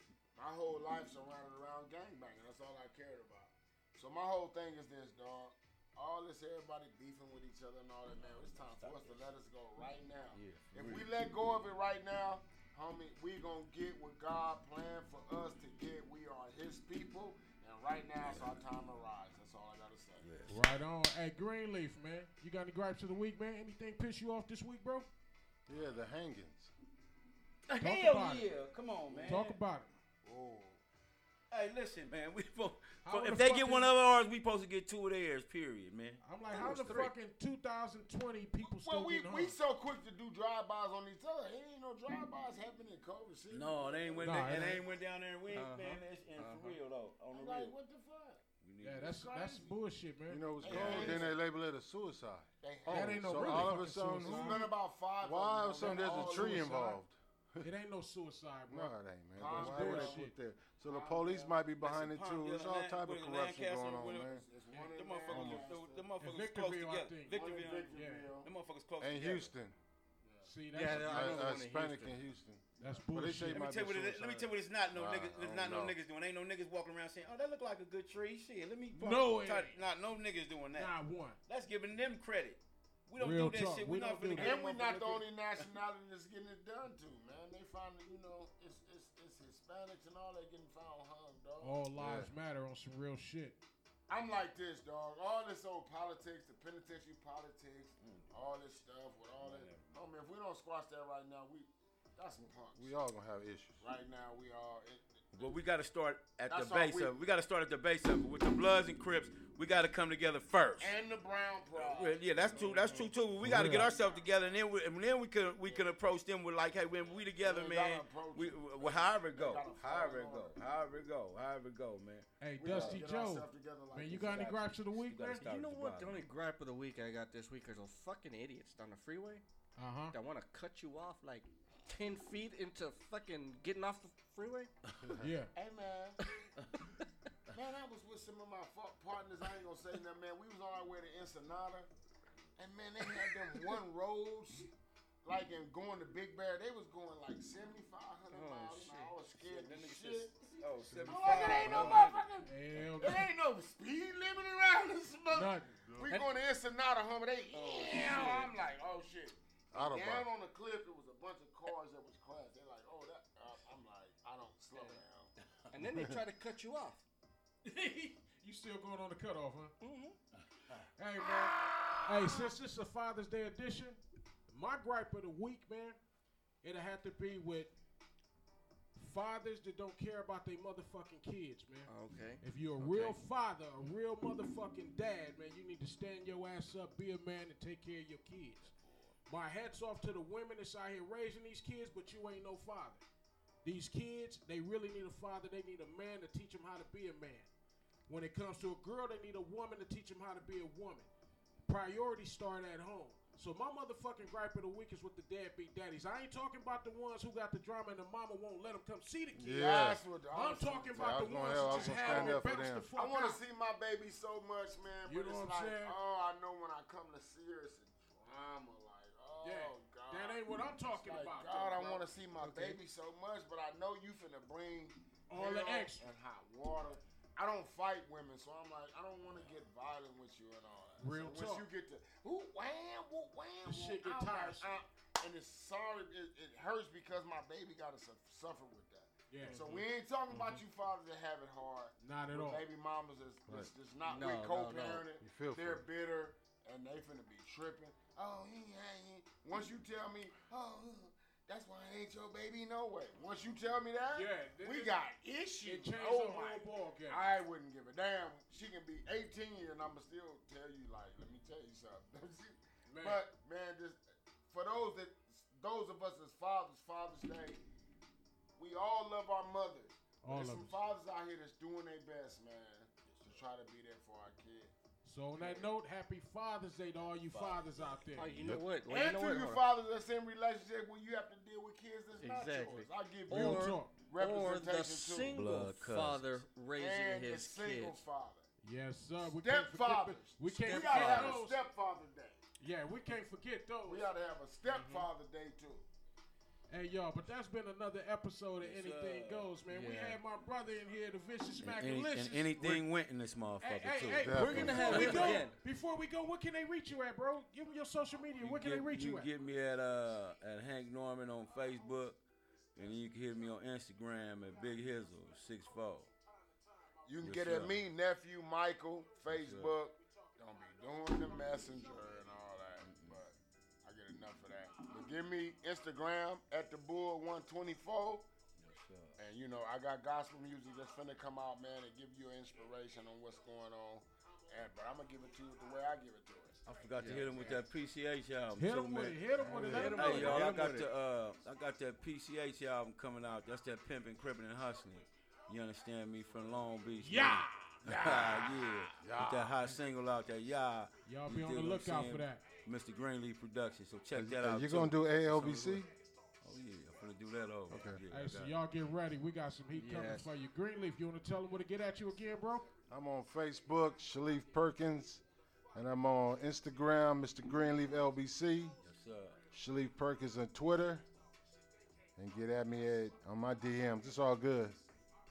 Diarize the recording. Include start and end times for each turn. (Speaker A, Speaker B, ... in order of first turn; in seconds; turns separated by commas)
Speaker A: 0.3-20.3, Speaker B: 8.3-9.3, Speaker B: 10.3-11.1, Speaker B: 18.2-18.6, Speaker B: 20.2-20.6, Speaker C: 20.5-25.1, Speaker D: 25.7-26.7, Speaker B: 27.7-29.6, Speaker C: 27.8-28.6, Speaker C: 29.3-29.9, Speaker A: 30.2-30.8, Speaker B: 31.5-37.1, Speaker C: 33.0-33.9, Speaker C: 36.2-39.6, Speaker A: 38.6-44.9, Speaker B: 43.5-47.7, Speaker C: 44.2-44.8, Speaker E: 45.5-46.8, Speaker A: 47.3-48.4, Speaker B: 48.6-49.3, Speaker C: 48.8-51.3, Speaker A: 49.0-49.7, Speaker D: 50.3-57.7, Speaker A: 50.6-51.4, Speaker B: 50.7-51.2, Speaker A: 52.6-57.0, Speaker C: 52.9-54.7, Speaker C: 55.8-56.8, Speaker C: 57.6-60.4, Speaker D: 58.7-64.5, Speaker A: 59.4-60.2, Speaker A: 60.8-61.6, Speaker B: 61.8-64.4, Speaker A: 64.2-66.1, Speaker B: 64.9-69.5, Speaker D: 65.3-65.7, Speaker C: 66.2-68.3, Speaker A: 67.3-68.5, Speaker D: 69.0-69.8, Speaker A: 70.2-70.5, Speaker C: 70.4-71.6, Speaker E: 70.7-72.2, Speaker D: 70.9-76.0, Speaker C: 72.8-73.7, Speaker B: 73.5-80.9, Speaker C: 78.9-79.8, Speaker C: 80.8-81.4, Speaker B: 81.5-85.6, Speaker C: 83.2-84.6, Speaker A: 84.4-91.8, Speaker C: 91.6-93.6, Speaker D: 92.0-92.3, Speaker A: 94.1-102.9, Speaker B: 98.0-98.3, Speaker B: 99.4-100.0, Speaker D: 102.8-103.8, Speaker A: 103.8-105.6, Speaker B: 105.3-111.0, Speaker A: 106.5-107.1, Speaker A: 110.8-114.5, Speaker B: 111.7-123.0, Speaker E: 112.7-113.1, Speaker D: 113.4-113.8, Speaker C: 113.4-113.9, Speaker A: 117.4-120.6, Speaker C: 122.4-125.4, Speaker A: 122.6-124.5, Speaker B: 124.1-126.2, Speaker E: 125.4-129.4, Speaker C: 129.8-130.2, Speaker E: 130.1-134.7, Speaker C: 135.2-135.5, Speaker A: 135.6-136.2, Speaker A: 137.5-141.9, Speaker A: 142.6-144.7, Speaker A: 145.2-165.3, Speaker B: 148.3-152.2, Speaker E: 148.7-149.1, Speaker E: 151.1-152.2, Speaker C: 151.5-151.8, Speaker C: 152.4-153.3, Speaker C: 155.3-155.7, Speaker D: 155.9-156.1, Speaker E: 156.1-156.3, Speaker E: 157.5-158.5, Speaker D: 159.7-160.3, Speaker E: 164.7-165.0, Speaker E: 165.7-167.0, Speaker C: 167.7-169.7, Speaker E: 169.8-170.2, Speaker C: 171.0-176.0, Speaker C: 176.6-177.7, Speaker C: 178.9-188.7, Speaker E: 181.9-183.2, Speaker C: 189.3-193.0, Speaker C: 193.6-197.5, Speaker C: 198.1-201.1, Speaker C: 201.7-209.7, Speaker D: 209.3-210.0, Speaker A: 209.5-212.4, Speaker C: 210.3-213.4, Speaker D: 211.0-212.9, Speaker A: 212.9-267.6, Speaker C: 215.1-216.0, Speaker C: 219.4-222.1, Speaker E: 222.4-222.8, Speaker C: 225.3-226.1, Speaker C: 231.0-231.7, Speaker C: 233.7-234.8, Speaker C: 239.3-239.7, Speaker E: 239.5-240.6, Speaker C: 242.0-242.7, Speaker E: 244.1-245.1, Speaker D: 245.2-245.8, Speaker C: 254.1-255.0, Speaker C: 255.6-257.2, Speaker C: 262.9-263.2, Speaker A: 268.6-274.7, Speaker C: 270.2-270.8, Speaker C: 275.0-278.4, Speaker B: 277.3-278.0, Speaker E: 278.2-279.6, Speaker A: 278.9-285.4, Speaker E: 282.2-288.0, Speaker C: 283.3-283.9, Speaker B: 285.3-286.4, Speaker A: 286.8-288.5, Speaker C: 288.6-291.6, Speaker A: 289.2-292.4, Speaker E: 290.9-291.3, Speaker C: 292.6-294.1, Speaker A: 293.9-295.9, Speaker E: 294.7-295.1, Speaker C: 296.7-302.8, Speaker B: 298.6-299.5, Speaker E: 299.7-300.2, Speaker B: 301.6-305.4, Speaker C: 303.6-309.3, Speaker D: 304.2-305.1, Speaker E: 304.3-305.6, Speaker B: 308.4-312.2, Speaker B: 312.8-316.1, Speaker A: 317.1-328.3, Speaker B: 317.2-317.8, Speaker B: 319.3-319.8, Speaker B: 322.8-323.2, Speaker B: 328.6-329.2, Speaker A: 329.2-337.6, Speaker B: 336.7-355.8, Speaker E: 337.0-337.6, Speaker C: 338.6-340.5, Speaker D: 339.4-339.9, Speaker E: 339.6-340.9, Speaker C: 347.0-348.7, Speaker D: 349.0-349.6, Speaker C: 351.1-352.5, Speaker D: 354.1-355.9, Speaker B: 356.4-358.5, Speaker D: 357.7-358.0, Speaker C: 358.1-362.7, Speaker E: 359.7-360.3, Speaker D: 362.9-368.8, Speaker B: 368.8-369.4, Speaker D: 369.5-371.0, Speaker D: 372.2-374.8